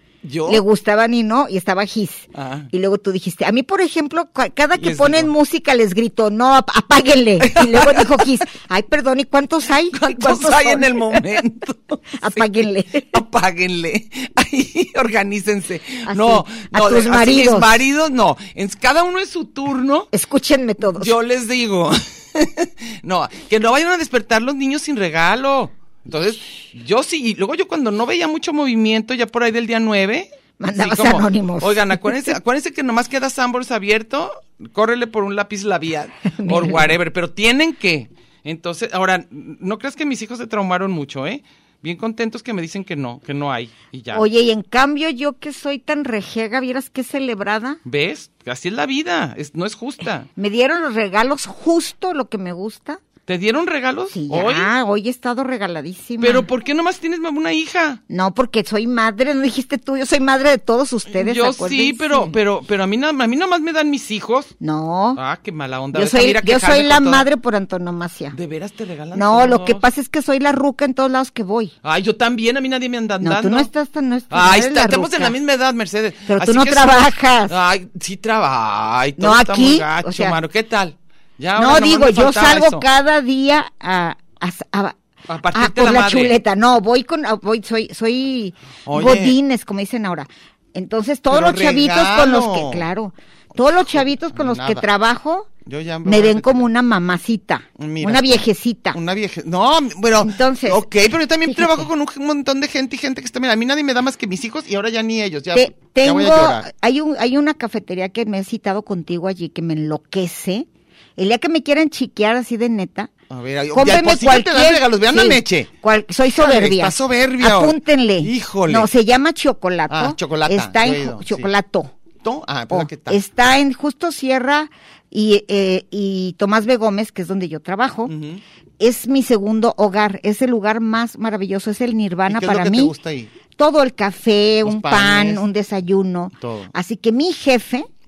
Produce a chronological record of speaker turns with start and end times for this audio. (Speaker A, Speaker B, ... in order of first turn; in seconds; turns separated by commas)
Speaker A: 0.2-0.6, Speaker B: 0.5-11.3, Speaker A: 2.3-2.7, Speaker A: 4.8-5.3, Speaker A: 7.4-8.4, Speaker A: 9.9-12.5, Speaker B: 12.2-13.2, Speaker A: 13.0-20.1, Speaker B: 16.0-17.8, Speaker B: 20.1-21.1, Speaker A: 20.8-44.3, Speaker B: 30.6-32.3, Speaker B: 36.3-36.9, Speaker B: 44.1-47.8, Speaker A: 47.8-50.3, Speaker B: 50.4-53.0, Speaker A: 53.3-54.7, Speaker B: 54.1-56.5, Speaker A: 56.2-58.0, Speaker B: 58.1-62.4, Speaker A: 61.1-64.5, Speaker B: 64.6-65.2, Speaker A: 65.2-67.3, Speaker B: 65.9-68.3, Speaker A: 68.3-69.8, Speaker B: 69.1-71.7, Speaker A: 71.8-73.7, Speaker B: 73.2-75.3, Speaker A: 74.3-82.8, Speaker B: 76.3-77.6, Speaker B: 79.2-80.4, Speaker B: 81.5-85.0, Speaker A: 85.3-86.4, Speaker B: 85.5-95.5, Speaker A: 88.8-89.4, Speaker A: 91.3-92.9, Speaker A: 93.8-94.8, Speaker A: 95.6-96.7, Speaker B: 96.0-99.0, Speaker A: 97.8-106.7, Speaker B: 100.2-100.8, Speaker B: 101.5-101.9, Speaker B: 105.5-113.1, Speaker A: 113.3-115.7, Speaker B: 113.7-121.9, Speaker A: 116.3-118.9, Speaker A: 119.9-121.5, Speaker A: 122.2-123.2, Speaker B: 122.7-128.1, Speaker A: 128.1-128.4, Speaker B: 128.8-132.9, Speaker A: 132.3-133.3, Speaker B: 133.6-137.9, Speaker A: 134.6-135.4, Speaker A: 136.4-136.7